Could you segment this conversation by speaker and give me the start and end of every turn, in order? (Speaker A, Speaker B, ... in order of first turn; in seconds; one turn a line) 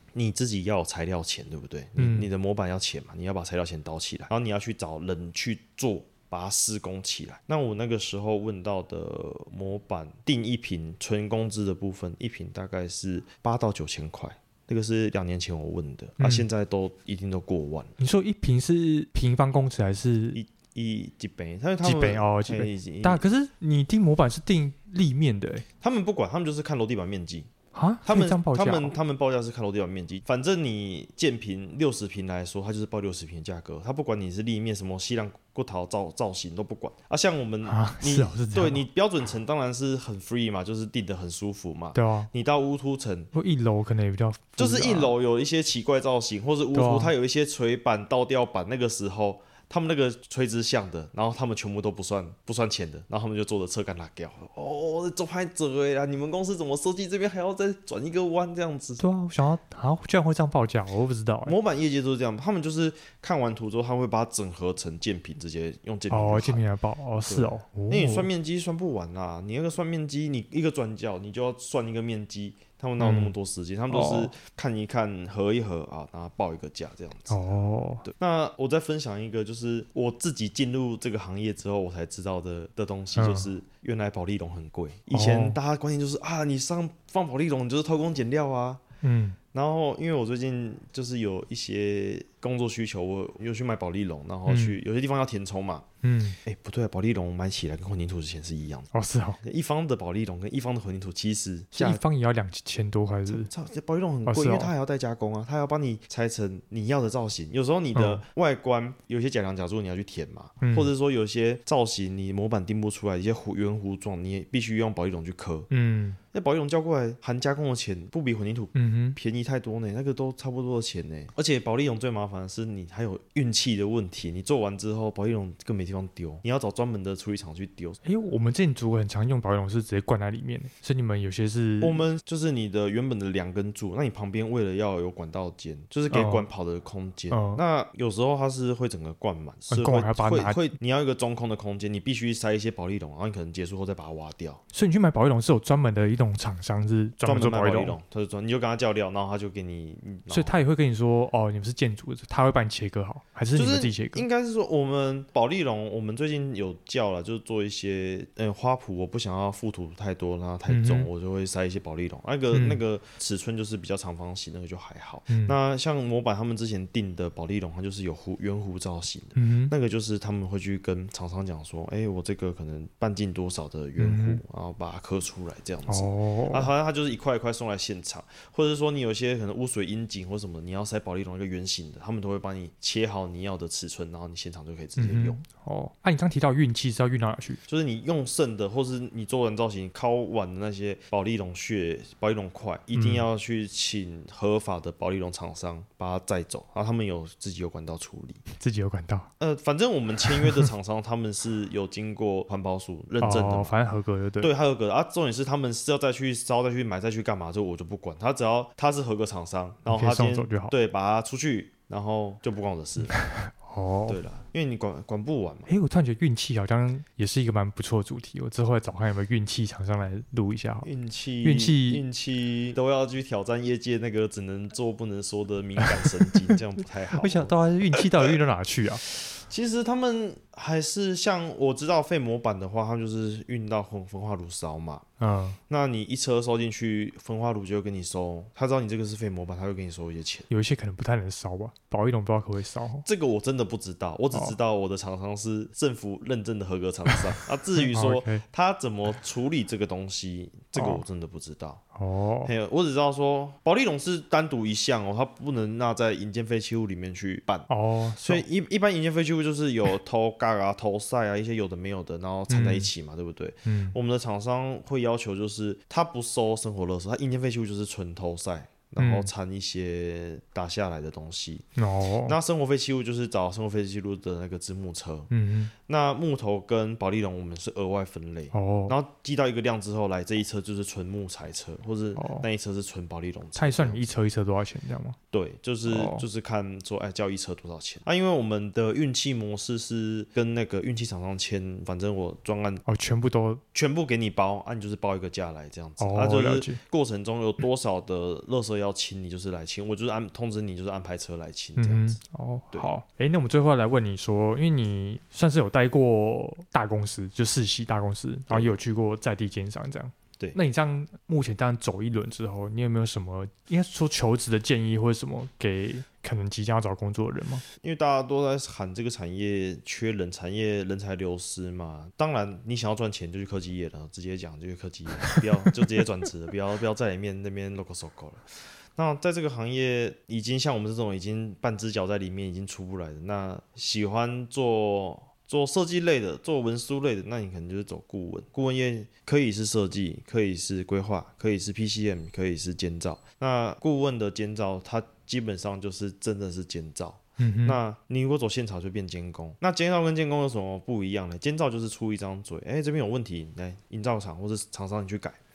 Speaker A: 0.1-17.9
Speaker B: 2.0-2.3
Speaker B: 16.2-16.5
Speaker B: 18.0-20.4
Speaker A: 20.3-23.2
Speaker B: 21.8-25.6
Speaker A: 25.8-27.5
Speaker B: 27.7-28.9
Speaker A: 28.0-43.3
Speaker B: 37.6-38.9
Speaker B: 41.9-42.3
Speaker B: 43.3-45.1
Speaker A: 44.6-59.0
Speaker B: 46.7-47.1
Speaker B: 59.0-61.5
Speaker A: 61.5-66.6
Speaker B: 66.1-68.3
Speaker A: 67.2-77.4
Speaker B: 73.0-73.3
Speaker B: 73.9-74.3
Speaker B: 77.3-78.0
Speaker A: 78.0-88.8
Speaker B: 83.2-83.5
Speaker B: 85.1-85.6
Speaker B: 89.0-89.4
Speaker A: 89.5-95.8
Speaker B: 94.5-94.8
Speaker B: 96.0-96.4
Speaker A: 96.4-102.0
Speaker B: 98.9-99.4
Speaker B: 101.7-103.5
Speaker A: 103.3-115.7
Speaker B: 104.2-104.7
Speaker B: 107.9-108.2
Speaker B: 110.6-110.9
Speaker B: 115.7-116.2
Speaker A: 116.3-128.0
Speaker B: 118.7-119.2
Speaker B: 128.0-132.0
Speaker A: 131.8-144.6
Speaker B: 136.1-136.5
Speaker B: 137.3-137.6
Speaker B: 139.7-140.7
Speaker B: 144.7-147.9
Speaker A: 147.2-150.6
Speaker B: 150.3-154.2
Speaker A: 153.5-185.4
Speaker B: 160.7-161.1
Speaker B: 162.5-162.8
Speaker B: 165.3-165.6
Speaker B: 169.3-169.7
Speaker B: 174.0-174.4
Speaker B: 175.9-176.7
Speaker B: 185.0-187.6
Speaker A: 187.7-198.4
Speaker B: 192.9-193.2
Speaker B: 198.5-199.3
Speaker A: 199.4-203.7
Speaker B: 200.3-200.7
Speaker B: 203.2-204.5
Speaker A: 204.4-213.2
Speaker B: 209.8-210.7
Speaker B: 213.1-214.2
Speaker A: 214.1-215.7
Speaker B: 215.7-220.9
Speaker A: 220.8-228.3
Speaker B: 221.4-222.0
Speaker B: 225.8-226.5
Speaker B: 227.1-229.0
Speaker A: 229.1-235.1
Speaker B: 235.2-235.6
Speaker A: 235.7-240.5
Speaker B: 240.5-243.1
Speaker A: 243.0-251.8
Speaker B: 247.8-248.4
Speaker B: 250.8-251.0
Speaker B: 251.9-252.5
Speaker A: 252.4-257.7
Speaker B: 257.7-258.4
Speaker A: 258.2-271.6
Speaker B: 262.5-262.9
Speaker B: 263.6-263.9
Speaker B: 269.0-269.3
Speaker B: 271.8-272.4
Speaker A: 272.2-275.3
Speaker B: 275.3-275.7
Speaker A: 275.9-284.1
Speaker B: 278.5-278.9
Speaker B: 282.1-282.5
Speaker B: 283.6-285.2
Speaker A: 285.3-292.8
Speaker B: 285.9-286.2
Speaker B: 292.9-293.6
Speaker A: 293.7-302.2
Speaker B: 296.0-296.8
Speaker B: 301.8-317.6
Speaker A: 308.5-308.7
Speaker A: 317.8-328.4
Speaker A: 328.9-355.4
Speaker B: 347.4-347.8